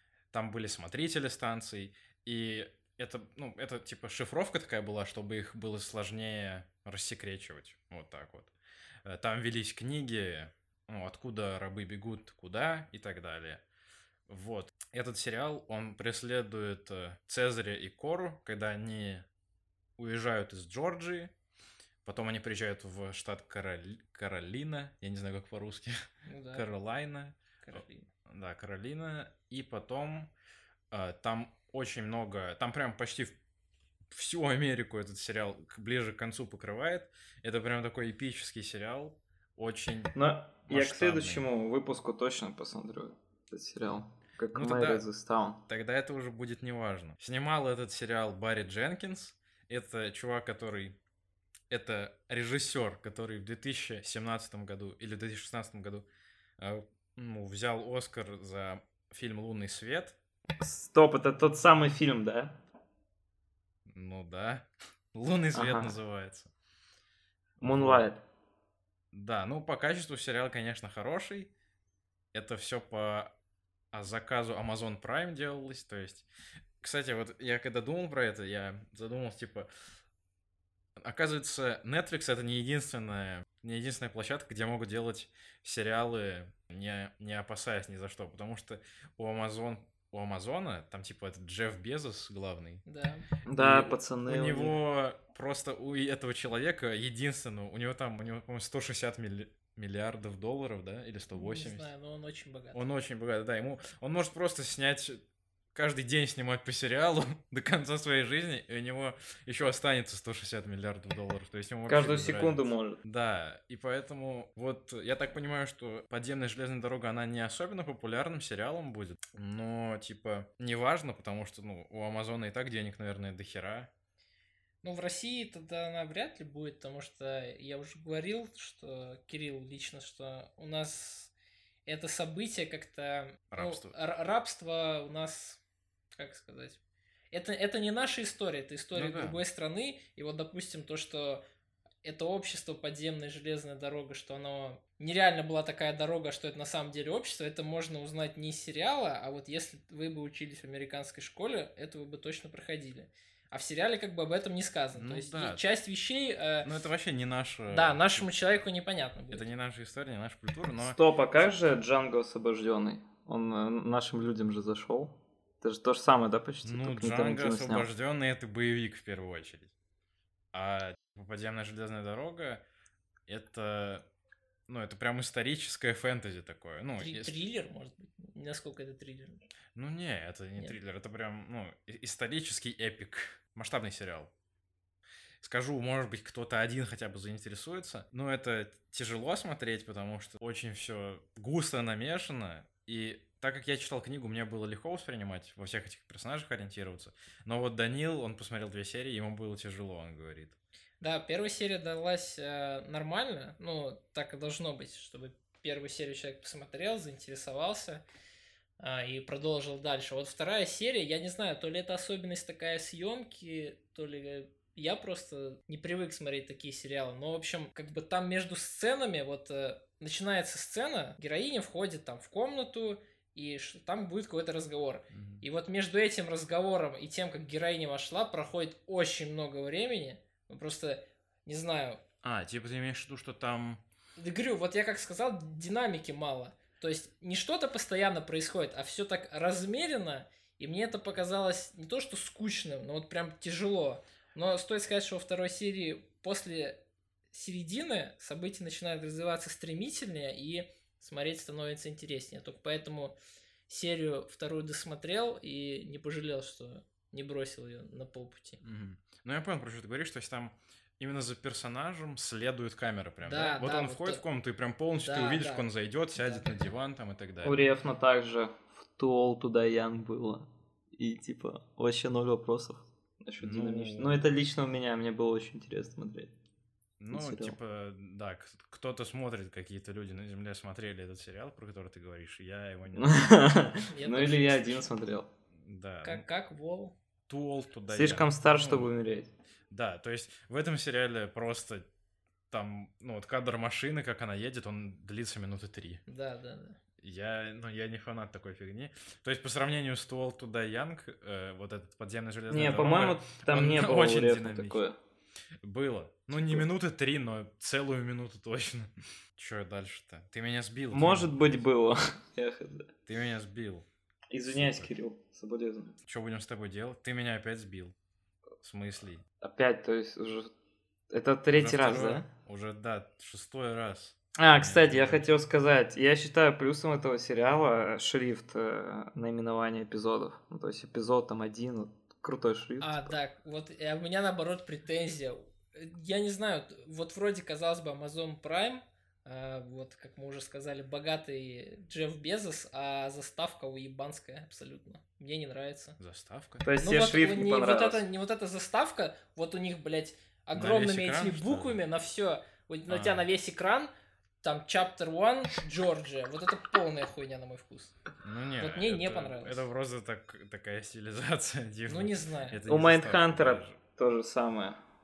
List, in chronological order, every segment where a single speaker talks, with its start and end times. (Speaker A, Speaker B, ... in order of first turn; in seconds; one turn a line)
Speaker A: 0.3-8.5
Speaker A: 9.1-13.6
Speaker A: 14.3-19.2
Speaker A: 20.0-21.3
Speaker A: 22.1-26.0
Speaker B: 26.3-26.7
Speaker A: 26.5-30.3
Speaker B: 27.6-28.1
Speaker A: 30.9-33.4
Speaker A: 34.1-40.1
Speaker C: 40.1-45.6
Speaker A: 40.7-41.5
Speaker A: 44.5-45.1
Speaker A: 45.7-51.0
Speaker A: 51.7-56.1
Speaker A: 56.6-60.2
Speaker C: 60.6-62.6
Speaker A: 63.9-66.5
Speaker C: 65.5-66.0
Speaker A: 67.6-68.1
Speaker C: 67.6-68.2
Speaker A: 69.1-71.5
Speaker A: 72.3-73.3
Speaker A: 73.9-76.3
Speaker A: 76.8-79.7
Speaker A: 81.0-92.8
Speaker B: 92.9-93.3
Speaker C: 93.5-94.8
Speaker A: 93.6-101.9
Speaker B: 101.3-102.8
Speaker A: 102.7-105.2
Speaker A: 105.8-123.9
Speaker C: 111.9-113.0
Speaker B: 124.8-131.3
Speaker B: 131.9-135.6
Speaker A: 133.5-133.9
Speaker B: 136.2-136.8
Speaker B: 137.3-141.4
Speaker A: 138.9-139.4
Speaker B: 142.0-156.7
Speaker A: 155.0-155.6
Speaker A: 156.6-158.3
Speaker B: 157.7-159.5
Speaker A: 159.3-161.0
Speaker C: 160.8-167.9
Speaker A: 166.6-169.7
Speaker A: 170.5-172.6
Speaker A: 173.3-174.1
Speaker A: 174.7-177.3
Speaker B: 177.0-179.4
Speaker A: 179.8-184.3
Speaker A: 185.4-200.6
Speaker B: 201.0-208.0
Speaker B: 208.8-232.0
Speaker A: 225.1-225.4
Speaker A: 232.2-233.8
Speaker B: 234.2-246.8
Speaker B: 247.3-253.2
Speaker B: 253.7-258.6
Speaker A: 258.6-267.6
Speaker B: 263.2-264.2
Speaker B: 265.0-266.6
Speaker C: 267.4-276.3
Speaker A: 273.4-274.3
Speaker A: 277.0-283.7
Speaker C: 277.1-277.6
Speaker C: 283.0-285.3
Speaker B: 283.9-284.9
Speaker A: 285.6-286.2
Speaker B: 286.0-286.9
Speaker A: 287.3-288.9
Speaker C: 287.9-289.3
Speaker A: 289.7-291.9
Speaker A: 292.5-296.0
Speaker B: 296.1-296.8
Speaker A: 297.0-304.8
Speaker C: 302.5-305.0
Speaker A: 305.6-311.3
Speaker C: 310.9-312.9
Speaker A: 313.1-313.9
Speaker C: 314.3-316.0
Speaker A: 314.4-314.9
Speaker A: 316.1-317.9
Speaker A: 318.6-319.2
Speaker C: 319.4-320.5
Speaker C: 321.1-322.3
Speaker A: 321.5-325.3
Speaker C: 324.4-333.1
Speaker B: 332.8-346.0
Speaker A: 346.0-346.7
Speaker C: 346.6-348.1
Speaker B: 346.8-353.9
Speaker A: 350.5-351.8
Speaker A: 352.9-353.3
Speaker B: 354.4-358.0
Speaker A: 358.2-363.8
Speaker B: 358.6-359.6
Speaker B: 361.9-362.6
Speaker C: 362.7-364.8